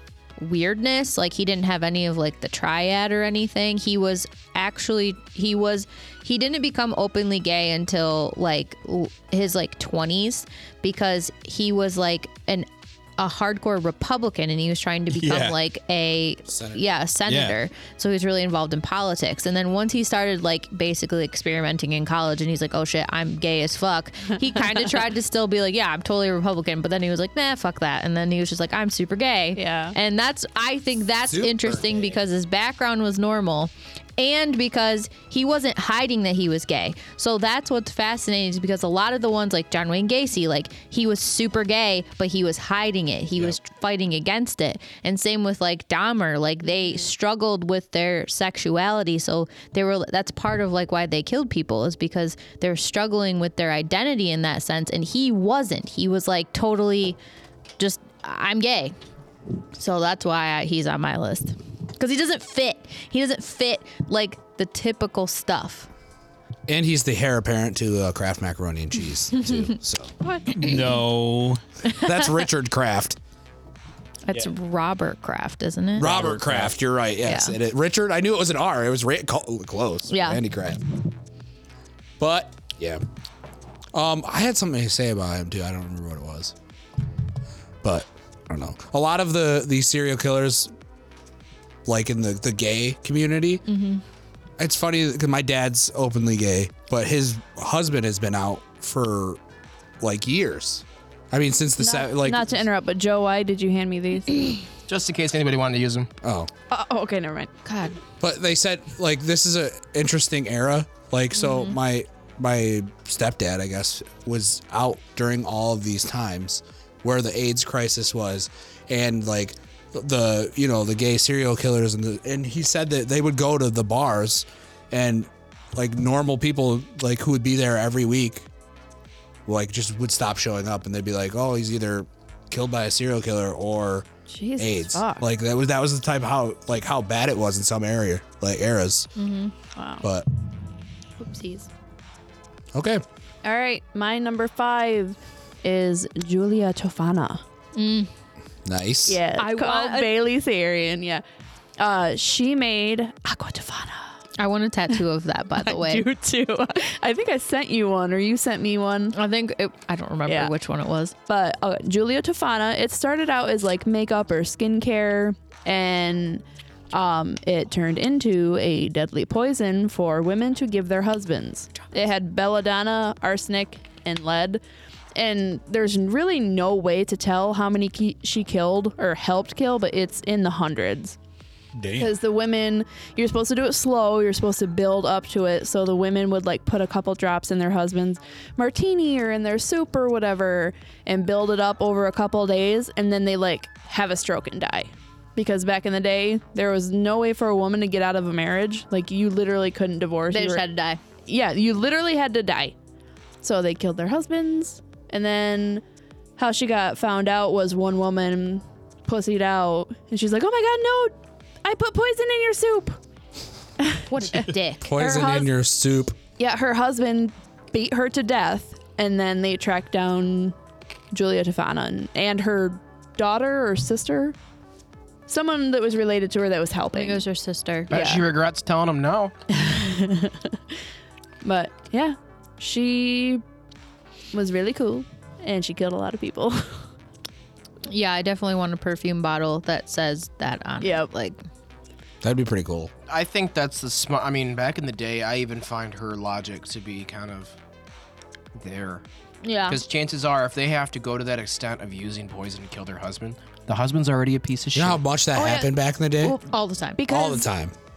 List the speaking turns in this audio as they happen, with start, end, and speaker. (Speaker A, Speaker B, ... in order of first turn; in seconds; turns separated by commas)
Speaker A: 0.4-57.2, Speaker B: 15.1-15.6, Speaker C: 16.5-16.9, Speaker B: 17.3-17.6, Speaker D: 29.6-29.9, Speaker C: 31.2-32.2, Speaker D: 46.6-47.1, Speaker A: 57.8-58.9, Speaker A: 59.8-65.9, Speaker C: 66.7-70.1, Speaker A: 69.4-69.7, Speaker B: 70.5-71.6, Speaker C: 71.8-73.2, Speaker A: 71.9-72.4, Speaker A: 74.3-76.3, Speaker C: 76.0-80.9, Speaker B: 76.0-76.7, Speaker A: 77.2-77.5, Speaker A: 80.1-80.4, Speaker C: 82.2-83.0, Speaker C: 83.9-86.5, Speaker C: 87.8-90.7, Speaker C: 91.8-93.7, Speaker A: 93.7-94.0, Speaker C: 94.6-99.4, Speaker C: 100.0-102.7, Speaker D: 101.8-104.7, Speaker E: 104.9-106.1, Speaker C: 106.2-106.5, Speaker D: 106.7-107.5, Speaker A: 107.6-108.0, Speaker C: 108.2-128.5, Speaker A: 111.4-111.7, Speaker C: 129.4-134.1, Speaker D: 134.3-135.2, Speaker C: 134.6-139.1, Speaker A: 139.2-139.5, Speaker D: 139.8-140.0, Speaker D: 141.2-141.7, Speaker C: 142.7-143.0, Speaker D: 143.4-147.4, Speaker A: 147.7-148.1, Speaker C: 148.6-149.2, Speaker D: 149.1-151.2, Speaker A: 149.3-150.1, Speaker D: 151.8-154.2, Speaker A: 154.4-156.1, Speaker D: 155.6-159.1, Speaker A: 159.1-161.1, Speaker D: 160.2-160.5, Speaker D: 161.3-174.6, Speaker D: 175.1-181.2, Speaker B: 181.7-182.1, Speaker D: 182.0-200.7, Speaker A: 200.3-201.0, Speaker D: 201.2-202.7, Speaker D: 203.4-205.8, Speaker D: 206.4-213.0, Speaker D: 213.8-215.5, Speaker A: 214.1-214.9, Speaker C: 214.8-216.2, Speaker D: 216.4-220.5, Speaker D: 221.1-224.3, Speaker D: 225.3-227.2, Speaker A: 226.9-227.9, Speaker D: 227.9-228.3, Speaker E: 227.9-229.3, Speaker D: 229.5-230.5, Speaker D: 231.4-233.4, Speaker D: 234.3-236.8, Speaker A: 237.8-241.4, Speaker D: 240.8-241.1, Speaker C: 242.2-242.9, Speaker E: 243.1-247.5, Speaker E: 248.5-249.0, Speaker A: 249.4-249.8, Speaker E: 249.6-255.0, Speaker C: 254.7-256.4, Speaker D: 255.3-255.7, Speaker A: 256.2-257.0, Speaker D: 257.0-257.4, Speaker C: 257.1-257.7